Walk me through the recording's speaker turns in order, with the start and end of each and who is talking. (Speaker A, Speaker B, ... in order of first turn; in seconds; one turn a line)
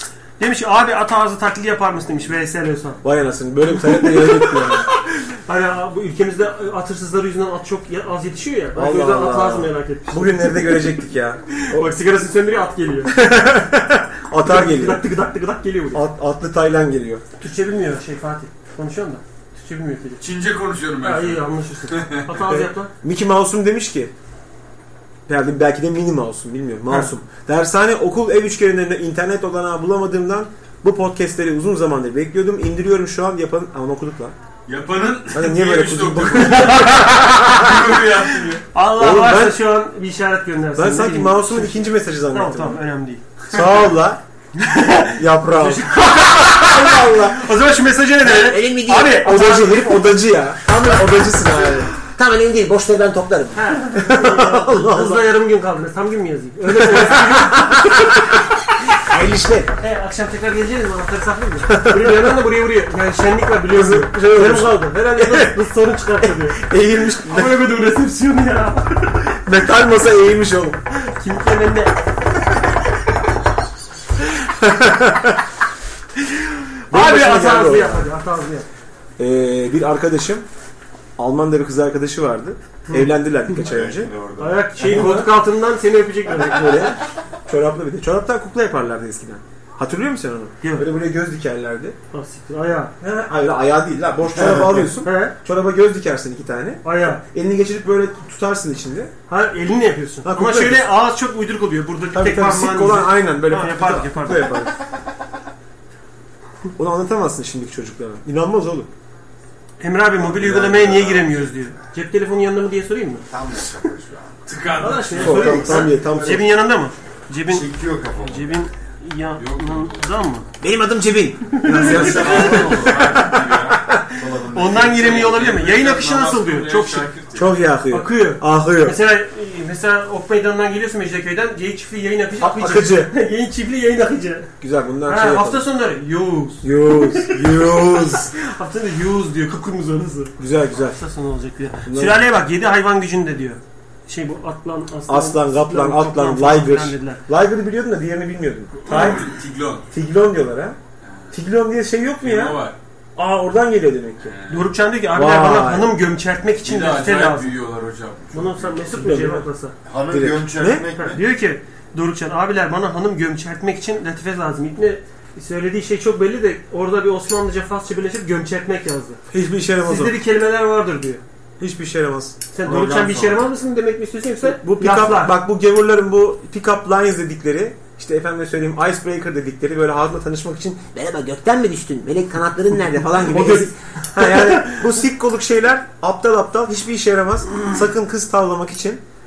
Speaker A: 0.4-3.0
Speaker B: 3.0-4.9
Speaker A: 3.8-5.0
Speaker A: 5.5-10.9
Speaker B: 8.7-11.9
Speaker A: 11.6-13.2
Speaker B: 13.1-15.1
Speaker A: 14.4-16.0
Speaker B: 15.9-17.2
Speaker A: 17.4-20.3
Speaker C: 20.2-22.4
Speaker A: 21.0-22.9
Speaker B: 22.5-24.1
Speaker B: 25.3-34.3
Speaker C: 34.7-38.6
Speaker B: 35.3-37.8
Speaker A: 38.7-43.8
Speaker B: 38.9-39.6
Speaker B: 40.7-42.8
Speaker B: 43.5-44.2
Speaker A: 44.5-50.1
Speaker B: 45.0-47.5
Speaker B: 48.4-52.0
Speaker D: 52.2-53.3
Speaker B: 53.5-55.3
Speaker A: 53.5-58.3
Speaker B: 56.7-58.4
Speaker B: 59.0-59.7
Speaker A: 59.8-66.6
Speaker B: 61.6-62.4
Speaker B: 63.7-65.6
Speaker B: 66.2-67.6
Speaker A: 67.3-69.3
Speaker B: 69.4-70.8
Speaker A: 70.9-71.9
Speaker B: 74.3-75.4
Speaker A: 76.3-78.7
Speaker B: 76.9-78.1
Speaker B: 79.2-80.5
Speaker B: 81.2-84.1
Speaker E: 83.6-85.0
Speaker A: 84.4-86.8
Speaker B: 84.8-85.3
Speaker B: 86.4-92.0
Speaker A: 90.6-90.9
Speaker A: 92.1-92.9
Speaker B: 93.0-99.1
Speaker E: 94.3-94.8
Speaker A: 95.0-95.3
Speaker A: 96.8-97.2
Speaker A: 99.3-104.5
Speaker B: 100.2-100.9
Speaker B: 102.1-104.7
Speaker B: 106.8-108.9
Speaker A: 109.8-113.2
Speaker E: 110.1-111.8
Speaker E: 113.3-114.5
Speaker C: 114.5-115.8
Speaker A: 114.8-120.5
Speaker B: 115.1-116.5
Speaker E: 117.5-118.6
Speaker C: 119.3-120.2
Speaker B: 120.6-124.0
Speaker A: 121.5-122.7
Speaker E: 121.7-123.4
Speaker C: 121.8-123.8
Speaker E: 124.1-125.4
Speaker A: 124.5-127.1
Speaker C: 124.8-127.5
Speaker B: 127.3-129.0
Speaker A: 127.9-134.5
Speaker B: 132.4-133.1
Speaker B: 134.6-135.7
Speaker A: 135.1-147.2
Speaker B: 136.6-138.3
Speaker B: 140.4-141.0
Speaker B: 141.8-142.2
Speaker B: 145.1-149.3
Speaker A: 148.8-149.2
Speaker C: 148.8-149.8
Speaker B: 149.9-150.8
Speaker B: 151.3-152.6
Speaker C: 152.2-152.8
Speaker B: 153.2-154.3
Speaker C: 154.2-154.7
Speaker A: 154.5-157.6
Speaker B: 155.1-155.9
Speaker C: 156.6-159.0
Speaker A: 158.3-159.8
Speaker B: 158.9-159.5
Speaker E: 159.8-161.2
Speaker B: 160.1-160.9
Speaker A: 161.0-169.2
Speaker B: 169.3-170.2
Speaker A: 169.8-171.2
Speaker B: 171.6-172.4
Speaker A: 172.5-175.3
Speaker E: 172.6-173.5
Speaker B: 174.4-181.2
Speaker D: 181.6-183.0
Speaker B: 181.9-189.0
Speaker A: 183.3-184.8